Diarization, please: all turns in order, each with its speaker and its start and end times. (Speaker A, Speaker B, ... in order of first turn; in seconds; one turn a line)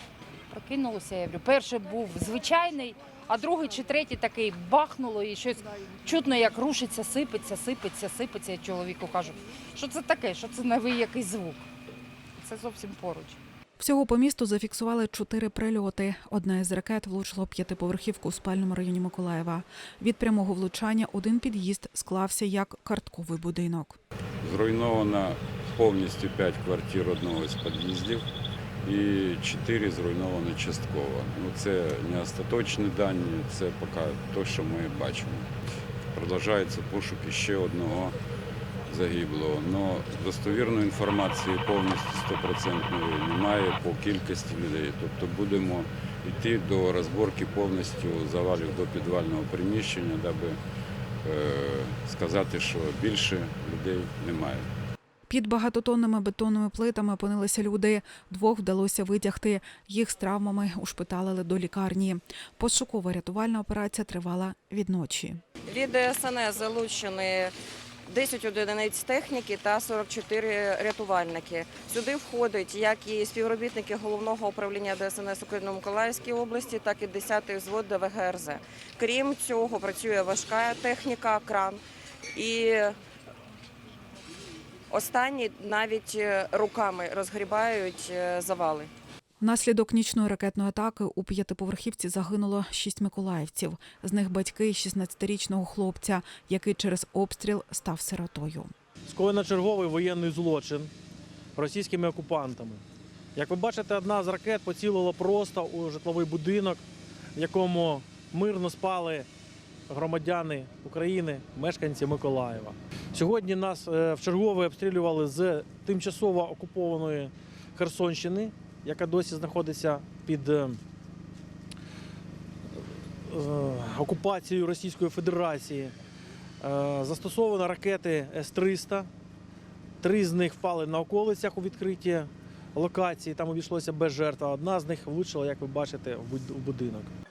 Speaker A: 0.5-11.7
Speaker A: 12.4-13.4
Speaker B: 13.8-24.0
Speaker C: 24.4-28.2
Speaker C: 28.8-35.5
Speaker C: 36.1-38.2
Speaker C: 38.9-50.6
Speaker C: 51.2-54.7
Speaker B: 55.3-65.4
Speaker D: 65.7-67.5
Speaker D: 68.1-81.8
Speaker D: 82.3-83.0
Speaker D: 84.9-88.9
Speaker B: 89.4-98.7
Speaker E: 99.1-100.9
Speaker E: 101.5-102.8
Speaker E: 103.3-106.8
Speaker E: 107.3-109.3
Speaker E: 109.9-120.8
Speaker E: 123.3-125.9
Speaker E: 126.6-129.1
Speaker E: 130.0-137.1